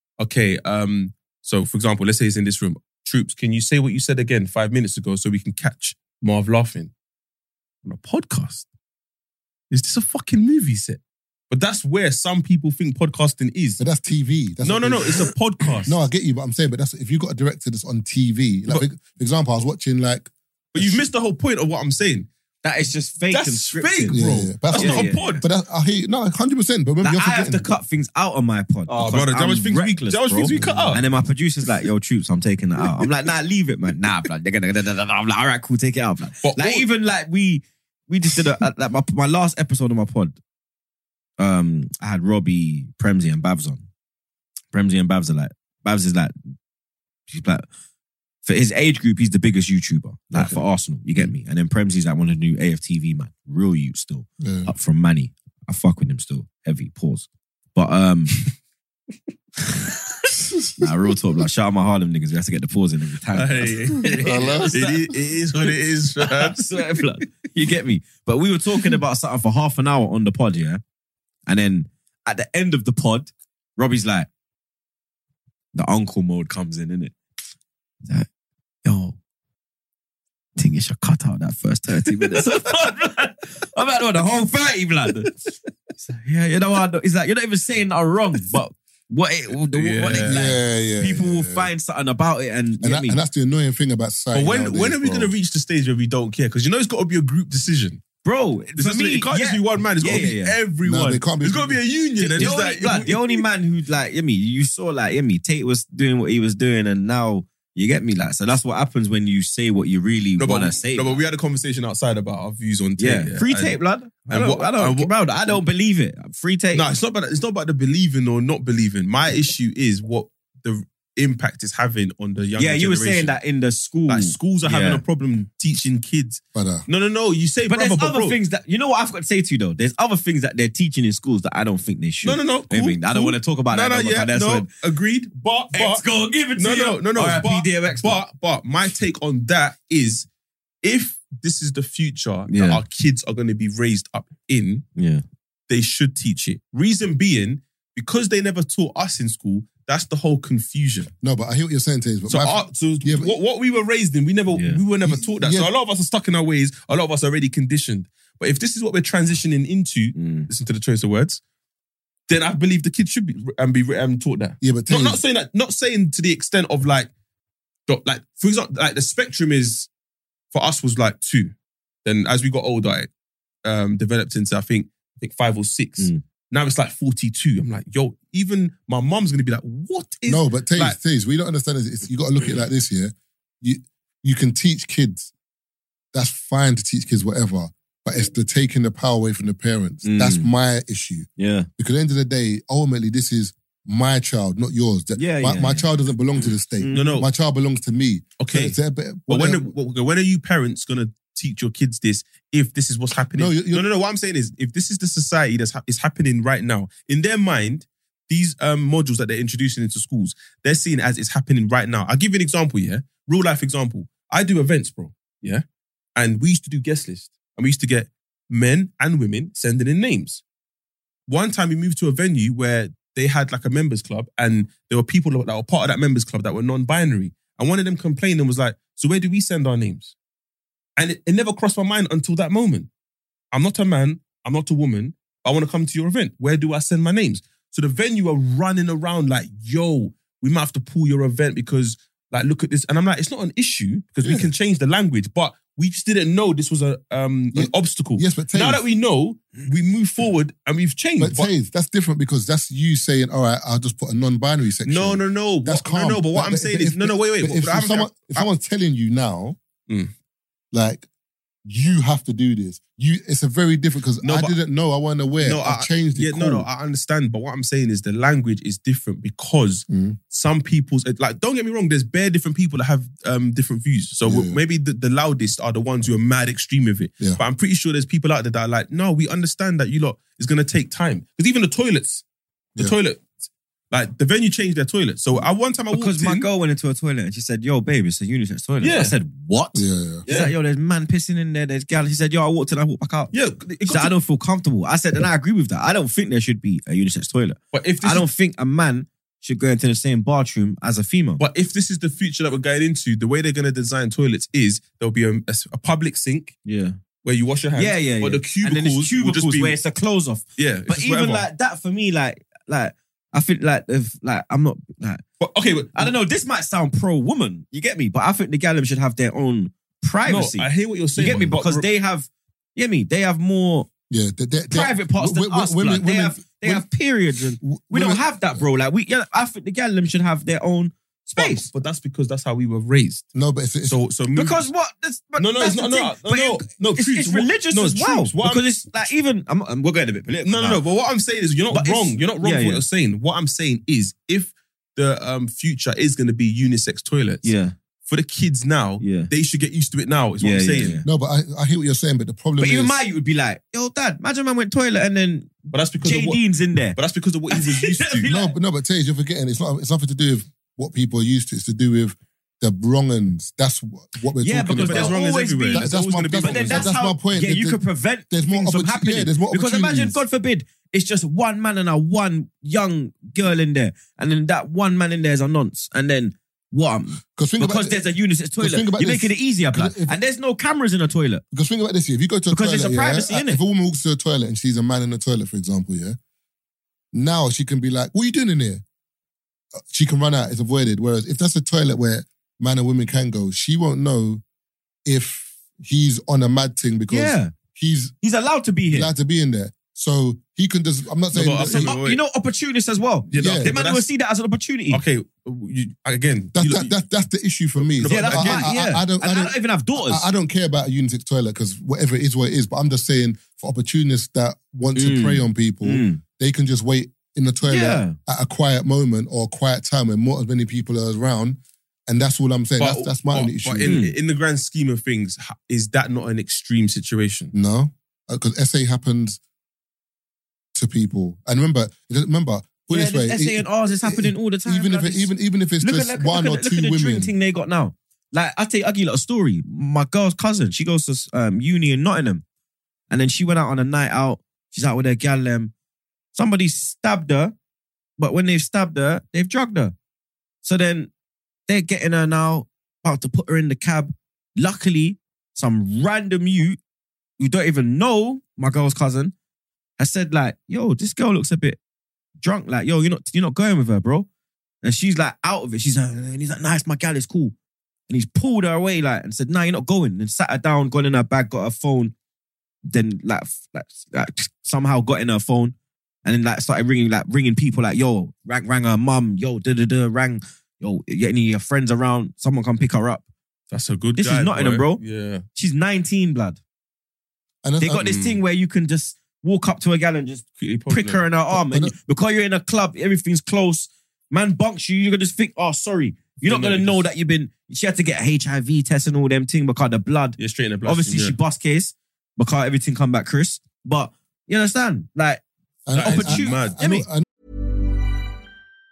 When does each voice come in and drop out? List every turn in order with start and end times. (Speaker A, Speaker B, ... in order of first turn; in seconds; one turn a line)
Speaker A: 0.2-6.9
Speaker A: 7.8-8.7
Speaker A: 9.7-13.8
Speaker B: 13.8-15.3
Speaker A: 14.6-16.0
Speaker B: 15.8-21.0
Speaker A: 20.7-22.3
Speaker C: 22.6-25.4
Speaker A: 23.3-25.4
Speaker B: 24.1-27.7
Speaker C: 27.0-40.4
Speaker A: 28.9-31.0
Speaker B: 30.5-31.0
Speaker A: 36.4-36.9
Speaker C: 41.4-43.8
Speaker C: 44.7-46.3
Speaker C: 47.3-47.6
Speaker C: 48.4-58.4
Speaker B: 54.4-54.7
Speaker C: 60.8-65.0
Speaker A: 63.3-67.0
Speaker B: 64.2-64.7
Speaker C: 66.2-70.8
Speaker C: 71.5-74.3
Speaker C: 75.7-77.1
Speaker C: 78.8-79.2
Speaker C: 80.5-85.3
Speaker C: 86.0-93.2
Speaker A: 89.7-90.4
Speaker B: 90.2-91.7
Speaker B: 92.8-95.3
Speaker A: 94.3-98.0
Speaker C: 98.2-100.5
Speaker A: 98.8-103.4
Speaker B: 100.8-101.8
Speaker C: 102.2-111.2
Speaker A: 110.4-115.5
Speaker C: 113.0-116.8
Speaker A: 116.7-123.4
Speaker C: 122.6-125.0
Speaker A: 124.1-128.4
Speaker B: 126.5-126.8
Speaker C: 127.7-134.7
Speaker A: 132.2-140.3
Speaker C: 135.7-138.2
Speaker A: 140.8-144.8
Speaker C: 142.5-142.8
Speaker C: 145.0-145.2
Speaker A: 145.7-151.1
Speaker B: 151.2-153.3
Speaker A: 152.3-161.4
Speaker C: 154.5-154.8
Speaker B: 155.0-155.7
Speaker C: 160.1-160.5
Speaker A: 162.3-167.1
Speaker B: 164.6-165.2
Speaker A: 167.9-169.9
Speaker A: 170.5-171.5
Speaker A: 172.0-173.1
Speaker A: 173.6-181.0
Speaker B: 180.2-185.3
Speaker B: 186.1-199.7
Speaker C: 190.0-190.5
Speaker C: 191.4-191.7
Speaker C: 195.2-195.9
Speaker C: 196.8-197.2
Speaker A: 196.9-197.3
Speaker A: 198.4-198.8
Speaker A: 199.3-215.6
Speaker B: 203.3-203.9
Speaker A: 216.2-220.4
Speaker A: 221.3-230.1
Speaker A: 231.0-232.9
Speaker A: 233.5-251.5
Speaker B: 244.2-244.5
Speaker B: 247.5-248.8
Speaker B: 251.2-259.6
Speaker A: 254.8-258.4
Speaker B: 260.7-261.1
Speaker B: 261.6-266.7
Speaker A: 264.2-264.6
Speaker A: 265.4-282.2
Speaker B: 269.9-270.2
Speaker B: 274.2-274.6
Speaker A: 282.8-283.3
Speaker A: 283.9-286.5
Speaker C: 285.9-293.3
Speaker A: 288.8-289.1
Speaker B: 289.7-290.2
Speaker A: 290.3-290.5
Speaker A: 293.3-294.1
Speaker C: 293.9-301.4
Speaker A: 297.7-298.3
Speaker A: 301.4-306.5
Speaker C: 306.6-307.0
Speaker A: 307.2-309.8
Speaker C: 307.7-315.2
Speaker A: 310.6-311.5
Speaker A: 315.4-316.1
Speaker C: 315.9-323.9
Speaker A: 320.2-321.9
Speaker B: 324.1-326.9
Speaker C: 324.7-331.7
Speaker B: 327.6-328.6
Speaker A: 331.3-333.3
Speaker B: 333.3-334.0
Speaker A: 333.9-334.7
Speaker C: 334.3-340.8
Speaker A: 335.4-338.9
Speaker A: 340.4-347.5
Speaker C: 341.7-342.8
Speaker C: 347.4-347.7
Speaker A: 348.1-351.0
Speaker C: 349.0-349.3
Speaker C: 350.4-351.1
Speaker B: 351.0-353.0
Speaker C: 352.6-357.0
Speaker A: 355.7-356.4
Speaker A: 356.9-358.3
Speaker C: 357.5-358.5
Speaker B: 358.2-365.1
Speaker C: 364.4-381.4
Speaker A: 364.8-366.9
Speaker B: 365.7-370.2
Speaker B: 377.3-378.0
Speaker B: 378.6-380.1
Speaker B: 381.5-386.2
Speaker C: 382.5-383.6
Speaker B: 387.1-388.8
Speaker B: 389.8-394.4
Speaker B: 395.1-398.1
Speaker C: 397.1-397.5
Speaker C: 398.2-399.1
Speaker B: 398.9-401.9
Speaker A: 401.3-402.2
Speaker C: 401.7-405.0
Speaker A: 403.3-404.1
Speaker B: 403.3-403.7
Speaker A: 404.9-406.9
Speaker B: 406.5-424.0
Speaker A: 407.8-408.7
Speaker C: 408.0-410.2
Speaker C: 414.9-416.2
Speaker C: 417.7-418.1
Speaker A: 422.8-427.5
Speaker C: 423.8-424.1
Speaker B: 427.5-429.4
Speaker B: 430.7-437.3
Speaker C: 432.9-442.4
Speaker C: 443.1-445.7
Speaker C: 446.3-447.5
Speaker C: 448.2-449.9
Speaker C: 450.6-451.1
Speaker C: 451.7-456.8
Speaker C: 457.4-459.3
Speaker C: 460.0-461.8
Speaker C: 462.4-464.3
Speaker C: 464.8-467.5
Speaker C: 468.1-472.1
Speaker C: 472.9-475.7
Speaker C: 476.2-483.2
Speaker A: 483.7-485.4
Speaker C: 484.1-485.0
Speaker C: 485.5-486.6
Speaker B: 487.6-488.2
Speaker C: 487.8-505.4
Speaker A: 488.0-488.4
Speaker A: 490.6-491.2
Speaker B: 491.5-491.9
Speaker A: 496.4-497.0
Speaker A: 500.4-501.4
Speaker B: 505.9-507.2
Speaker A: 505.9-506.9
Speaker C: 506.0-507.1